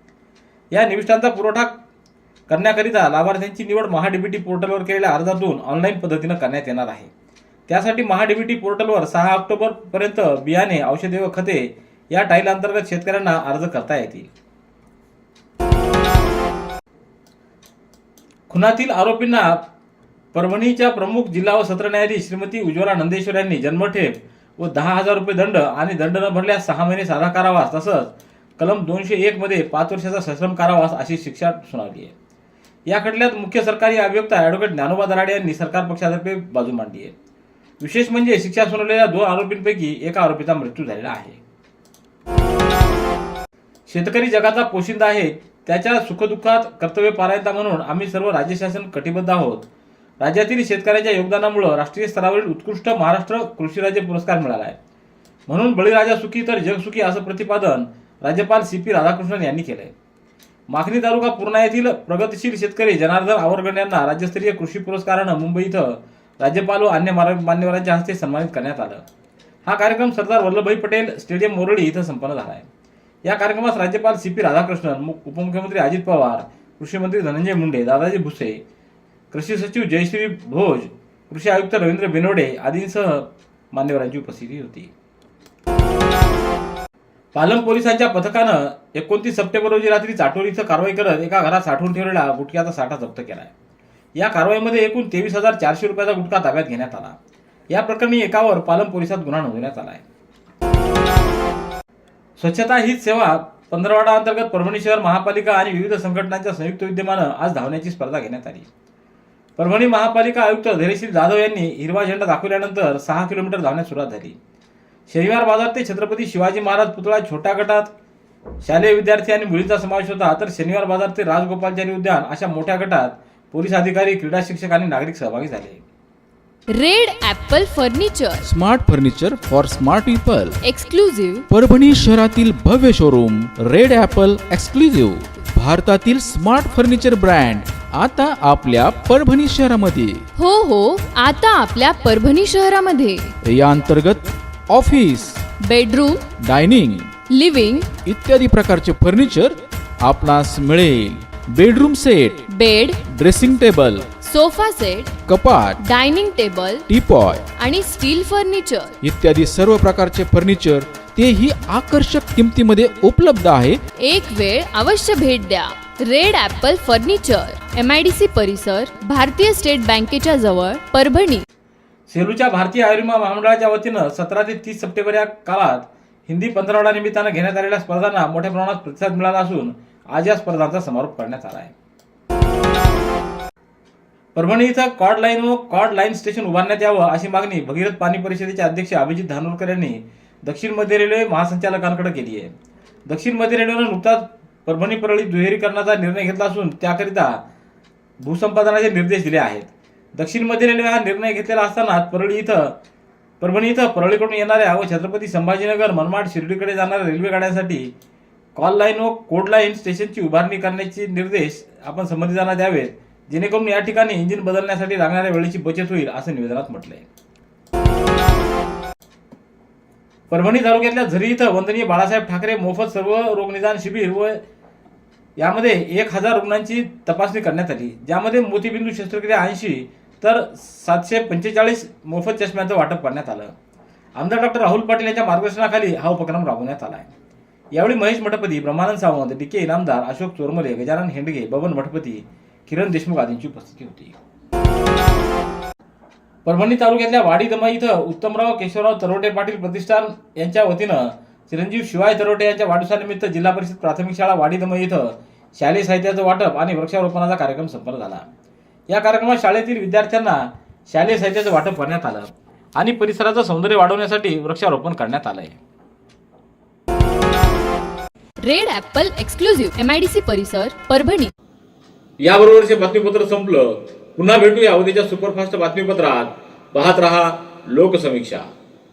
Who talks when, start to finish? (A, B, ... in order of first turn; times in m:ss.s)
0:00.7-0:01.8 A
0:02.5-0:07.1 A
0:07.7-0:14.3 A
0:18.5-0:19.6 A
0:20.3-0:32.1 A
0:32.9-0:37.1 A
0:37.8-0:41.4 A
0:43.9-0:49.7 A
0:50.2-0:54.8 A
0:55.5-0:59.9 A
1:00.7-1:09.0 A
1:09.6-1:12.7 A
1:13.3-1:18.6 A
1:19.3-1:24.9 A
1:27.3-1:33.5 A
1:34.2-1:37.2 A
1:37.7-1:40.0 A
1:42.4-1:48.7 A
1:49.6-1:54.4 A
1:55.1-1:57.9 A
1:58.6-2:05.8 A
2:06.7-2:08.4 B
2:08.4-2:10.6 C
2:10.6-2:11.5 B
2:11.5-2:20.2 C
2:20.4-2:23.3 B
2:23.4-2:25.4 C
2:25.6-2:26.2 B
2:26.4-2:27.1 C
2:27.3-2:27.9 B
2:28.0-2:32.4 C
2:32.5-2:33.0 B
2:33.0-2:34.1 C
2:34.2-2:35.1 B
2:35.3-2:35.8 C
2:35.8-2:36.8 B
2:36.9-2:37.4 C
2:37.6-2:38.9 B
2:39.0-2:43.8 C
2:44.0-2:51.4 B
2:52.1-3:01.7 A
3:04.4-3:12.5 A
3:13.1-3:17.4 A
3:18.2-3:22.8 A
3:23.4-3:27.9 A
3:28.6-3:37.1 A
3:40.3-3:44.4 A
3:45.4-3:53.5 A
3:54.2-3:57.1 A
3:57.7-4:04.2 A
4:06.4-4:18.2 A
4:18.9-4:25.6 A
4:28.4-4:31.3 B
4:32.2-4:38.5 A